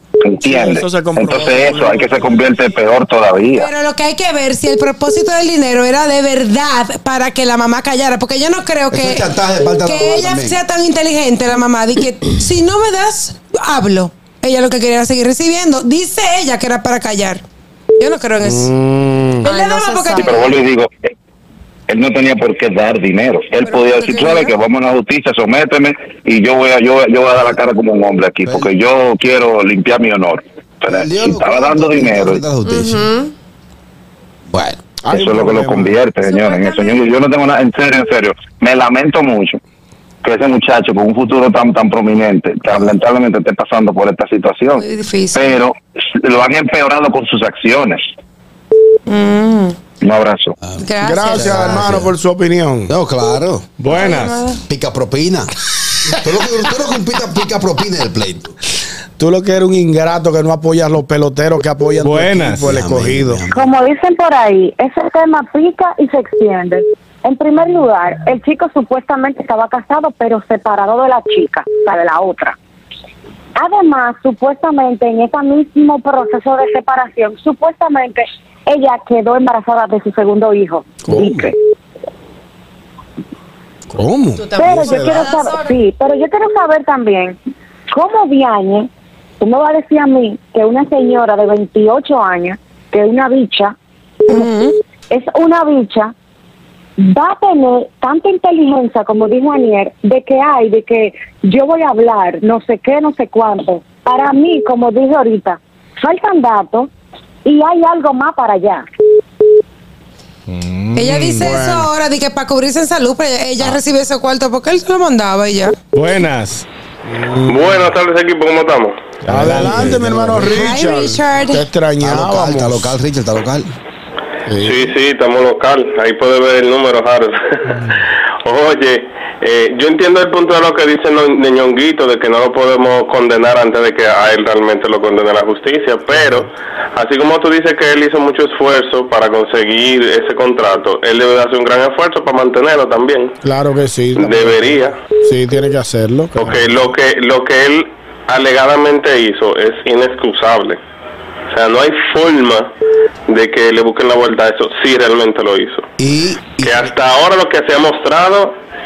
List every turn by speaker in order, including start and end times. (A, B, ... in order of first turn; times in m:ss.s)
0:00.2-0:03.7 A
0:00.4-0:02.4 B
0:03.5-0:17.4 C
0:08.9-0:10.6 D
0:18.0-0:18.7 C
0:18.4-0:19.5 B
0:19.4-0:20.5 C
0:19.4-0:20.4 E
0:20.1-0:20.9 A
0:21.9-0:32.4 A
0:23.6-0:24.5 C
0:30.9-0:33.1 D
0:32.6-0:33.3 E
0:34.5-0:34.8 D
0:35.0-0:36.0 B
0:35.1-0:39.6 A
0:36.2-0:37.0 C
0:40.2-0:48.0 A
0:44.7-0:45.6 C
0:49.1-0:49.8 C
0:50.0-0:50.6 A
0:50.6-0:52.1 D
0:50.8-0:51.8 C
0:51.0-0:52.9 B
0:52.9-0:53.7 D
0:53.8-0:54.4 F
0:53.9-0:54.6 C
0:54.7-0:55.5 D
0:56.2-0:58.6 D
0:59.2-1:03.4 B
1:02.0-1:02.6 F
1:02.6-1:03.7 D
1:03.5-1:12.5 G
1:13.6-1:21.6 G
1:21.0-1:21.5 B
1:23.9-1:25.3 B
1:24.4-1:25.8 E
1:24.6-1:27.4 G
1:27.9-1:28.9 G
1:29.4-1:33.7 G
1:34.3-1:34.7 C
1:35.1-1:36.1 G
1:37.0-1:46.9 G
1:47.4-1:48.8 G
1:50.5-1:51.1 F
1:50.9-1:55.8 C
1:51.0-1:51.9 B
1:55.9-1:56.7 F
1:57.0-1:57.9 B
1:57.5-1:58.9 E
1:59.2-2:00.5 F
1:59.3-2:02.9 B
2:00.5-2:01.6 C
2:02.0-2:03.7 D
2:04.5-2:04.9 B
2:04.6-2:07.4 E
2:08.4-2:16.4 E
2:16.1-2:16.4 B
2:16.9-2:23.3 E
2:23.4-2:26.8 B
2:24.4-2:24.9 E
2:26.4-2:30.8 E
2:31.5-2:32.6 E
2:33.3-2:35.8 E
2:36.0-2:36.9 D
2:36.7-2:38.5 E